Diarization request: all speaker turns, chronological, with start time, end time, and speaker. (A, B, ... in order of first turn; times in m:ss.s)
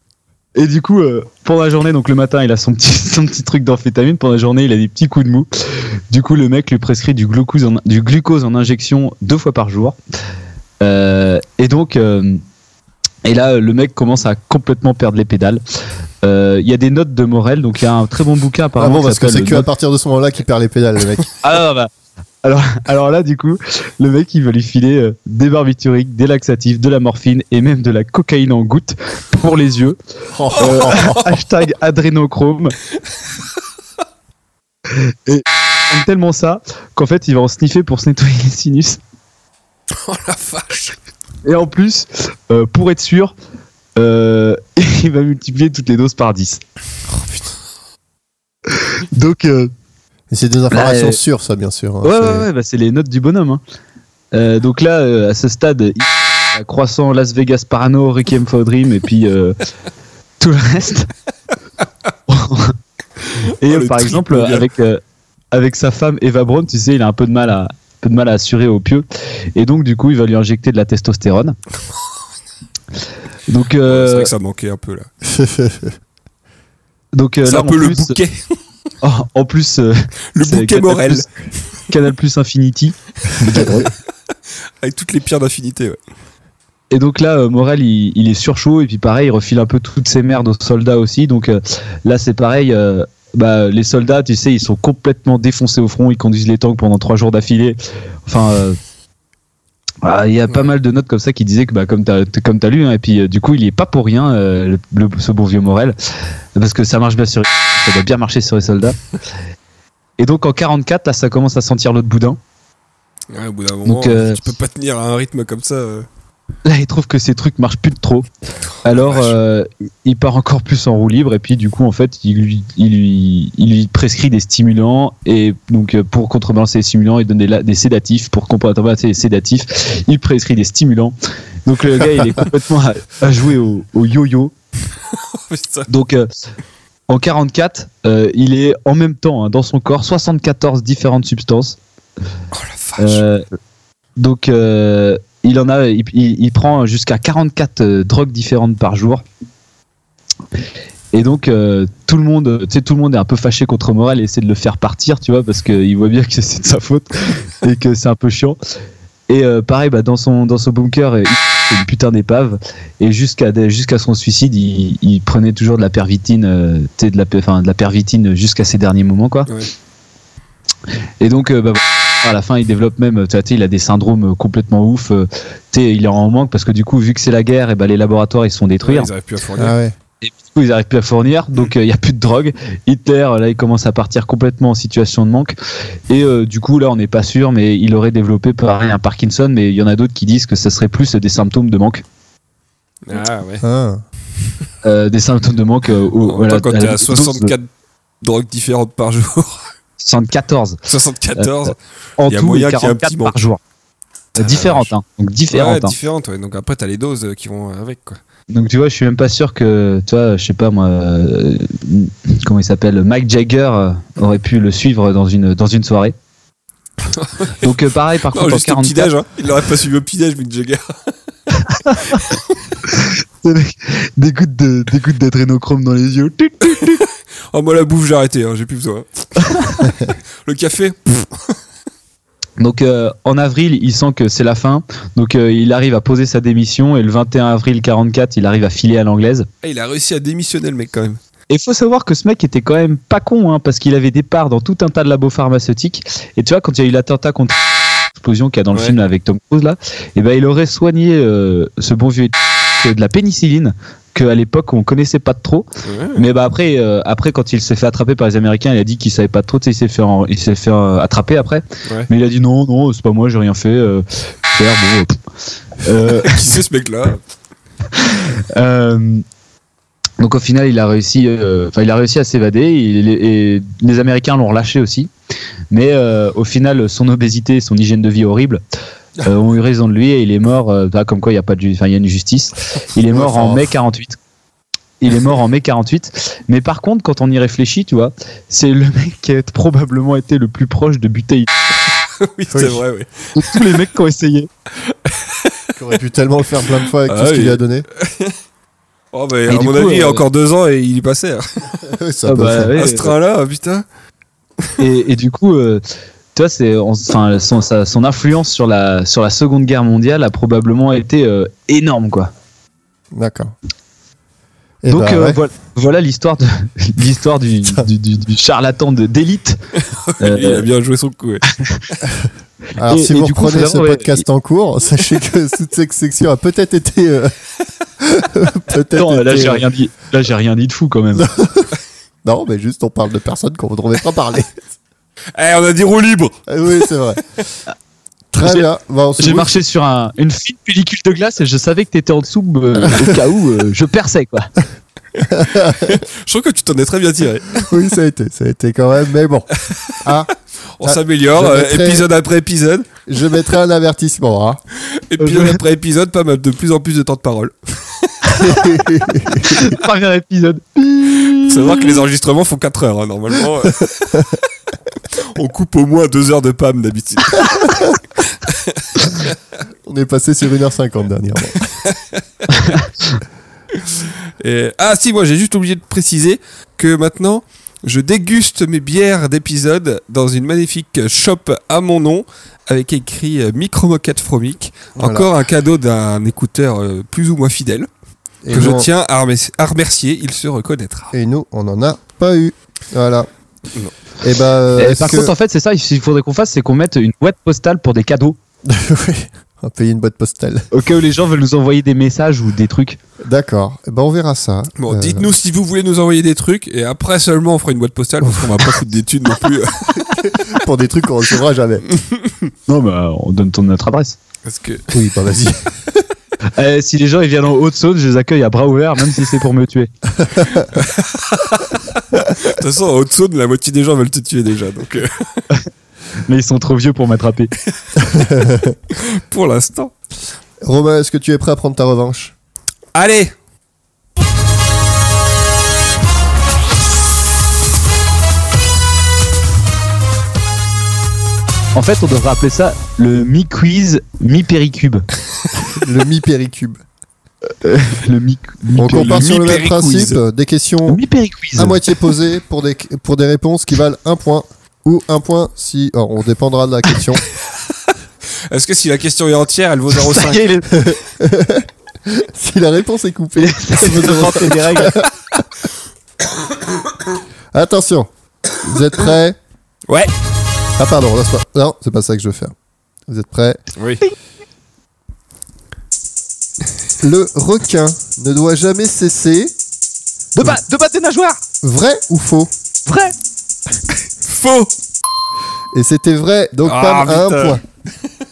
0:00.5-0:10.0 A
0:10.8-0:12.4 A
0:13.2-0:15.6 A
0:16.2-0:19.7 A
0:18.8-0:21.3 B
0:21.4-0:21.9 A
0:22.4-0:30.0 A
0:30.3-0:31.2 B
0:30.5-0:32.7 A
0:30.5-0:31.3 C
0:34.9-0:39.0 A
0:39.9-0:41.0 C
0:41.4-0:43.3 A
0:44.0-0:46.6 A
0:47.1-0:47.5 C
0:48.7-0:49.7 A
0:50.3-0:52.4 B
0:50.7-0:51.2 A
0:52.0-0:53.6 A
0:54.3-0:59.6 A
1:00.4-1:01.1 A
1:02.3-1:02.8 A
1:03.4-1:09.0 A
1:03.6-1:04.6 C
1:09.5-1:11.6 A
1:13.5-1:14.3 A
1:13.8-1:15.1 C
1:15.2-1:15.9 B
1:17.1-1:18.2 A
1:17.4-1:18.6 C
1:19.0-1:21.3 A
1:20.3-1:21.3 C
1:21.9-1:23.9 A
1:24.8-1:26.0 C
1:26.9-1:38.8 A
1:40.0-1:45.9 A
1:46.5-1:49.0 A
1:50.2-1:52.4 A
1:53.3-1:56.1 C
1:53.8-1:54.4 A
1:56.6-1:58.2 A
1:58.8-2:11.1 A
1:58.8-1:59.4 C
2:11.6-2:14.5 A
2:15.1-2:15.9 C
2:15.9-2:16.3 A
2:17.1-2:21.8 A
2:22.5-2:23.2 C
2:23.0-2:23.4 A
2:24.2-2:29.2 A
2:31.1-2:38.6 A
2:39.3-2:49.5 A
2:51.2-2:59.1 A
2:58.8-2:59.7 C
2:59.6-2:59.9 B
3:00.2-3:05.5 A
3:06.1-3:12.0 A
3:13.0-3:13.6 C
3:13.6-3:14.0 B
3:14.8-3:17.5 A
3:16.2-3:17.7 C
3:18.2-3:19.6 C
3:20.0-3:20.8 A
3:20.8-3:23.4 C
3:21.4-3:23.6 A
3:24.4-3:24.9 C
3:24.4-3:25.9 A
3:25.5-3:28.2 C
3:28.5-3:36.1 A
3:37.1-3:37.7 C
3:37.6-3:39.1 A
3:38.3-3:40.9 C
3:41.6-3:42.2 A
3:42.8-3:47.0 A
3:47.5-3:51.2 C
3:49.5-3:49.8 A
3:52.6-3:59.5 A
3:59.6-4:01.2 C
4:01.5-4:07.6 A
4:08.1-4:25.2 A
4:15.8-4:16.2 C
4:25.8-4:26.4 A
4:26.2-4:27.2 C
4:27.9-4:29.2 A
4:30.2-4:35.1 A
4:35.7-4:38.6 A
4:39.2-4:44.2 A
4:43.1-4:43.6 B
4:45.0-4:51.5 A
4:52.2-4:53.6 C
4:52.5-4:52.8 B
4:53.3-4:54.5 A
4:54.9-4:55.6 C
4:55.8-4:57.8 B
4:57.0-4:58.3 C
4:59.1-5:01.8 C
4:59.5-5:00.2 A
5:01.8-5:02.7 B
5:02.2-5:03.1 A
5:02.7-5:03.8 C
5:04.8-5:05.8 A
5:06.3-5:12.3 A
5:13.1-5:13.5 B
5:14.8-5:15.4 B
5:14.9-5:19.6 A
5:20.0-5:21.4 C
5:20.2-5:20.6 A
5:22.1-5:27.3 B
5:22.8-5:24.2 A
5:28.0-5:29.6 B
5:28.9-5:31.3 A
5:31.1-5:31.7 B
5:32.2-5:34.5 B
5:35.3-5:36.4 C
5:36.5-5:37.2 B
5:38.3-5:39.6 B
5:39.2-5:44.5 A
5:45.3-5:46.0 B
5:45.8-5:47.7 C
5:47.7-5:49.5 B
5:49.7-5:50.0 C
5:50.0-5:52.1 B
5:50.8-5:53.0 C
5:53.1-5:54.6 B
5:54.9-5:58.2 C
5:55.2-5:55.6 A
5:58.2-5:58.7 A
5:58.4-5:59.8 B
5:59.4-6:01.9 A
6:01.4-6:04.2 C
6:05.1-6:07.9 C
6:08.5-6:08.8 C
6:09.8-6:11.6 B
6:13.8-6:27.9 C
6:25.0-6:25.3 B
6:28.4-6:28.9 B
6:28.5-6:31.1 C
6:31.1-6:33.3 B
6:34.2-6:35.3 B
6:34.7-6:38.4 A
6:38.6-6:40.7 B
6:40.7-6:43.0 A
6:43.2-6:45.3 B
6:44.8-6:50.6 C
6:48.2-6:48.6 B
6:50.1-6:51.8 B
6:52.0-6:52.4 C
6:52.7-6:54.2 A
6:54.4-6:54.9 C
6:54.9-6:56.0 B
6:56.6-6:59.9 A
7:00.2-7:00.6 B
7:00.7-7:05.4 C
7:06.3-7:07.5 A
7:08.0-7:08.7 B
7:08.9-7:09.9 C
7:10.6-7:12.3 B
7:12.9-7:13.3 C
7:21.7-7:25.0 A
7:25.7-7:26.8 B
7:27.6-7:29.3 A
7:28.8-7:31.0 B
7:28.9-7:30.2 C
7:30.9-7:31.9 A
7:31.6-7:37.2 B
7:38.5-7:40.4 C
7:39.9-7:40.8 A
7:40.7-7:45.1 B
7:43.4-7:45.0 A
7:47.5-7:49.4 B
7:50.8-7:52.5 B
7:53.1-7:53.6 B
7:53.8-7:54.0 C
7:57.0-7:59.5 B
8:00.3-8:01.4 A
8:01.6-8:02.5 B
8:02.9-8:03.1 A
8:04.2-8:04.7 C
8:05.7-8:07.6 B
8:06.6-8:07.6 C